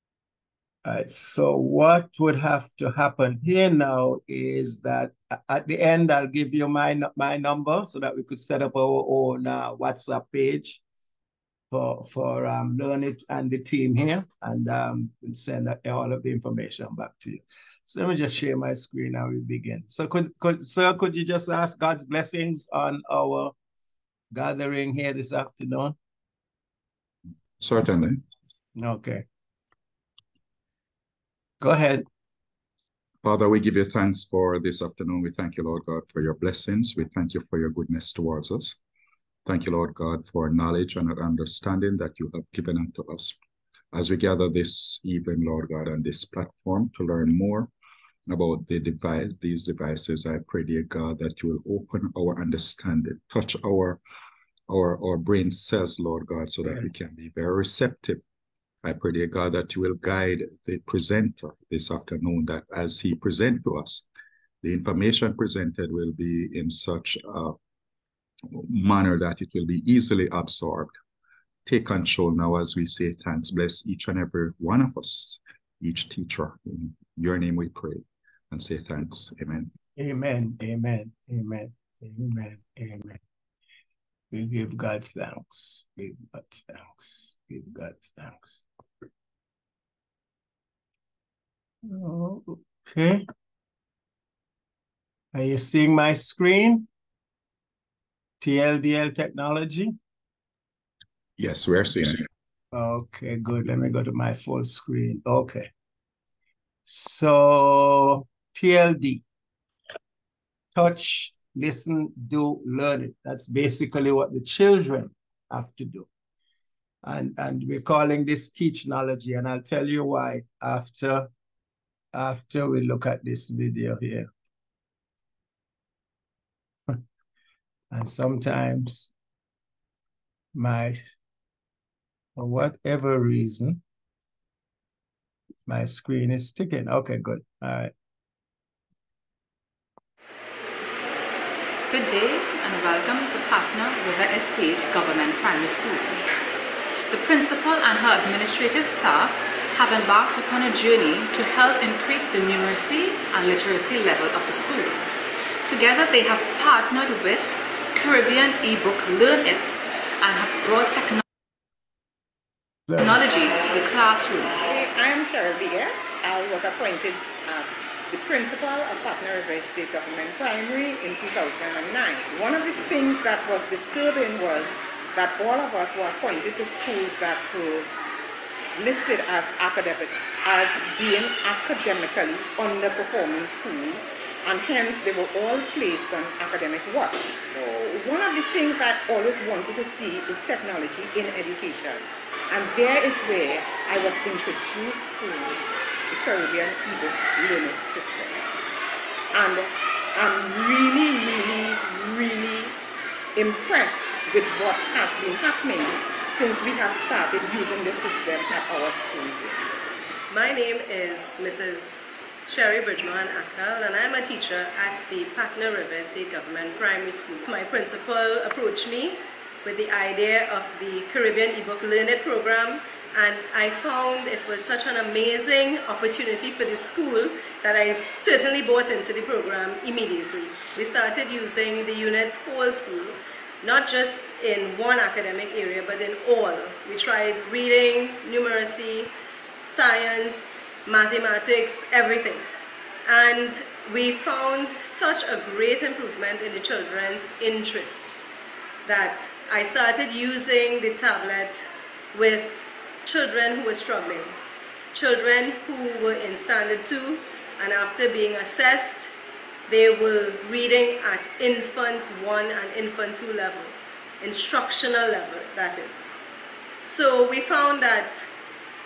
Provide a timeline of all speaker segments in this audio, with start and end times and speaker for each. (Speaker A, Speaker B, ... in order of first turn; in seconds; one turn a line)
Speaker A: 0.8-10.8
Speaker A: 11.7-23.5
Speaker A: 24.3-26.0
Speaker B: 27.6-28.2
Speaker A: 28.8-29.2
Speaker A: 31.6-32.0
Speaker B: 33.2-38.8
Speaker B: 39.5-43.4
Speaker B: 43.9-47.7
Speaker B: 48.3-54.0
Speaker B: 54.7-58.2
Speaker B: 58.8-64.1
Speaker B: 64.6-67.6
Speaker B: 68.5-70.9
Speaker B: 71.7-79.7
Speaker A: 80.0-83.2
Speaker A: 84.3-88.6
Speaker A: 91.9-93.2
Speaker A: 95.3-96.9
Speaker A: 98.4-100.0
Speaker B: 101.4-102.3
Speaker A: 102.7-105.7
Speaker A: 106.9-109.2
Speaker A: 110.8-116.1
Speaker A: 117.0-121.3
Speaker A: 122.1-124.3
Speaker A: 127.9-129.1
Speaker A: 130.6-131.0
Speaker A: 132.4-133.8
Speaker A: 135.7-137.9
Speaker C: 141.9-146.2
Speaker C: 147.1-155.1
Speaker C: 155.7-161.2
Speaker A: 162.9-163.2
Speaker C: 163.0-164.6
Speaker D: 164.6-177.9
Speaker D: 178.8-198.4
Speaker D: 199.3-202.8
Speaker D: 203.3-209.6
Speaker E: 210.3-239.1
Speaker E: 239.7-242.5
Speaker E: 243.1-248.2
Speaker E: 248.8-254.3
Speaker E: 254.9-259.1
Speaker E: 259.7-266.1
Speaker E: 266.8-268.3